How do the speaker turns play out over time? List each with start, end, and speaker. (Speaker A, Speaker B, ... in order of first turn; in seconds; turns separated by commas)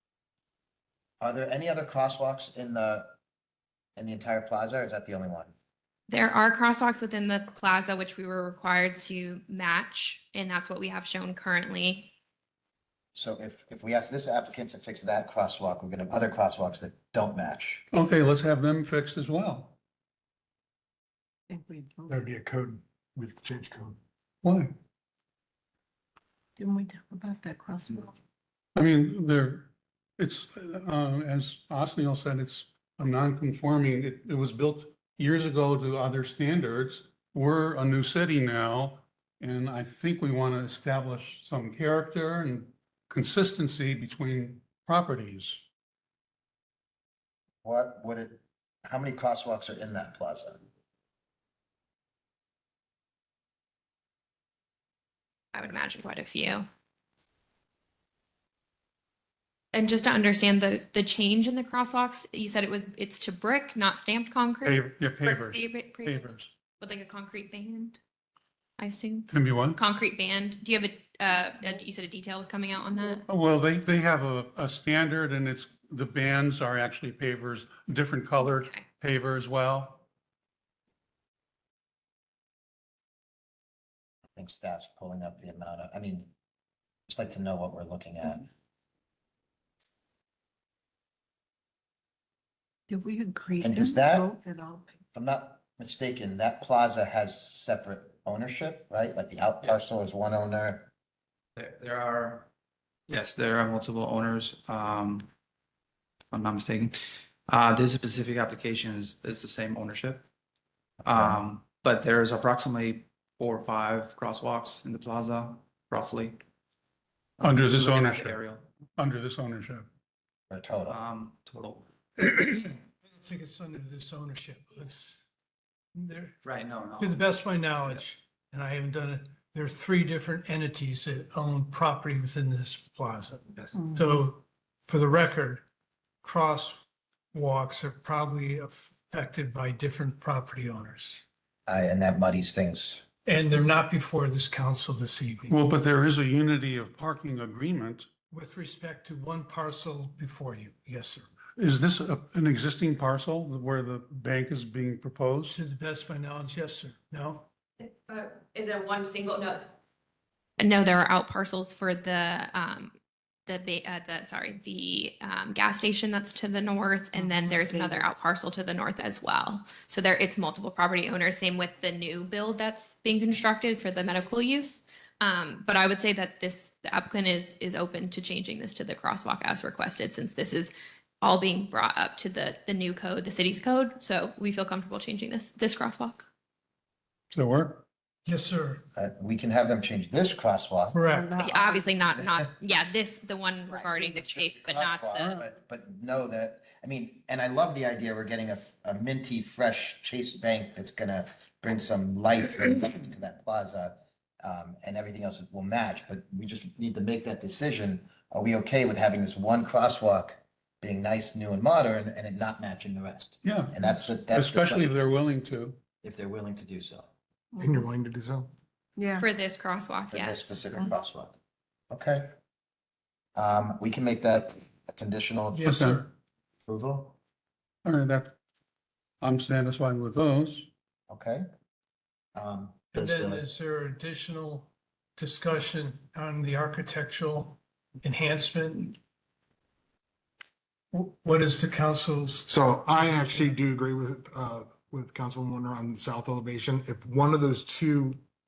Speaker A: 1.2-3.1, Speaker A: 4.0-5.5, Speaker B: 6.1-12.1, Speaker A: 13.1-17.8, Speaker C: 17.9-19.8, Speaker D: 21.5-22.2, Speaker E: 22.1-24.0, Speaker C: 24.4-24.7, Speaker D: 26.6-28.1, Speaker C: 28.8-45.6, Speaker A: 47.6-50.6, Speaker B: 55.5-56.6, Speaker B: 59.7-68.0, Speaker C: 64.6-66.5, Speaker B: 68.8-73.3, Speaker C: 69.3-69.8, Speaker C: 73.3-80.0, Speaker B: 78.4-78.8, Speaker A: 84.3-86.3, Speaker A: 87.1-88.5, Speaker D: 92.9-95.0, Speaker A: 93.6-94.3, Speaker A: 95.1-100.9, Speaker F: 101.6-102.5, Speaker F: 103.1-105.3, Speaker F: 106.3-110.3, Speaker F: 111.0-116.4, Speaker F: 117.4-118.7, Speaker C: 117.4-118.4, Speaker C: 119.0-119.9, Speaker A: 120.5-121.0, Speaker F: 120.9-121.9, Speaker G: 122.2-125.2, Speaker G: 126.0-126.4, Speaker F: 126.4-127.2, Speaker G: 127.0-135.6, Speaker G: 136.2-141.2, Speaker A: 141.7-143.0, Speaker G: 143.2-145.6, Speaker C: 145.5-148.1, Speaker G: 148.3-151.3, Speaker C: 151.6-155.6, Speaker G: 155.5-157.5, Speaker B: 157.8-159.7, Speaker B: 160.6-163.0, Speaker B: 163.5-186.3, Speaker D: 167.2-168.2, Speaker C: 187.3-187.8, Speaker G: 188.3-188.8, Speaker A: 188.9-191.0, Speaker G: 190.9-191.3, Speaker D: 191.1-192.0, Speaker B: 191.4-195.4, Speaker A: 192.1-192.4, Speaker A: 194.2-214.9, Speaker C: 213.4-215.8, Speaker A: 216.0-217.1, Speaker D: 217.6-217.8, Speaker E: 217.6-218.5, Speaker D: 219.0-219.3, Speaker B: 219.2-220.6, Speaker A: 220.1-221.3, Speaker A: 221.9-222.3, Speaker A: 223.3-226.0, Speaker G: 225.5-226.1, Speaker C: 225.7-226.1, Speaker A: 226.7-227.2, Speaker C: 227.8-228.3, Speaker C: 229.2-230.7, Speaker A: 231.1-231.5, Speaker A: 232.3-233.4, Speaker G: 232.9-239.0, Speaker G: 240.9-243.6, Speaker E: 242.5-248.2